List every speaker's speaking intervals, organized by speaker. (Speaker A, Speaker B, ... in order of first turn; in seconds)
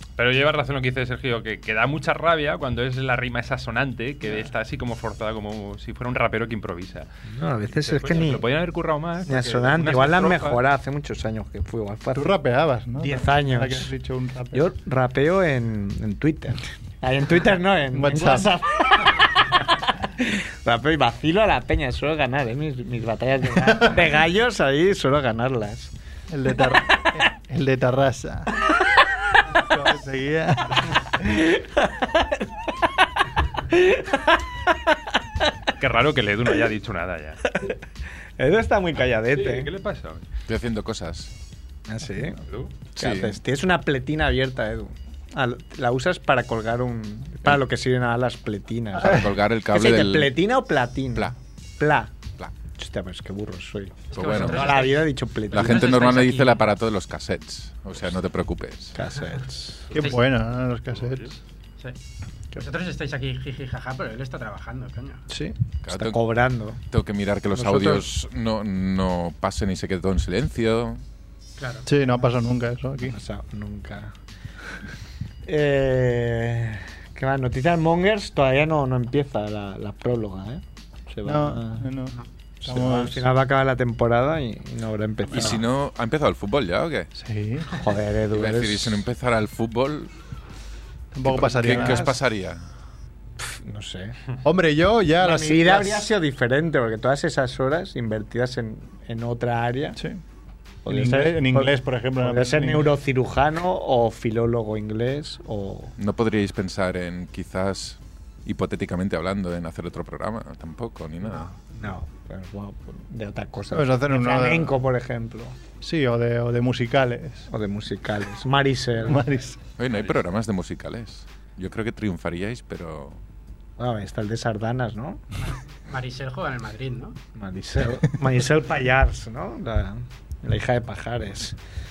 Speaker A: 0.2-7.1, 7.7-10.6, 35.8-37.4, 39.3-40.2, 61.0-61.3
Speaker B: 4.2-4.5, 12.1-14.7, 17.9-18.5, 23.6-24.1, 26.3-28.5, 29.5-30.9, 59.9-61.4, 71.9-73.2, 81.2-83.3, 87.2-87.7, 91.1-92.1, 94.4-96.1, 100.0-100.2, 100.9-102.9, 113.7-114.7, 115.8-117.5, 119.0-119.6
Speaker C: 7.3-8.4, 9.3-12.3, 13.0-13.9, 14.5-25.9, 31.2-32.5, 33.6-34.4, 38.4-39.7, 41.9-42.4, 43.0-52.1, 52.8-56.1, 59.0-59.9, 65.3-66.8, 67.5-68.1, 73.0-74.1, 75.5-81.9, 82.6-85.6, 87.7-89.0, 91.6-92.1, 93.4-94.2, 95.2-100.0, 100.9-105.9, 111.6-115.6, 117.5-119.2, 123.8-125.2, 127.4-131.6
Speaker D: 40.5-41.3, 43.0-43.4, 49.0-50.3, 54.1-54.8, 55.5-59.0, 65.9-66.2, 66.9-71.0, 85.3-87.1, 88.3-90.1, 91.2-92.6, 106.0-111.5, 119.8-123.2
Speaker E: 54.1-56.7, 62.6-65.2, 71.6-72.2, 125.4-127.2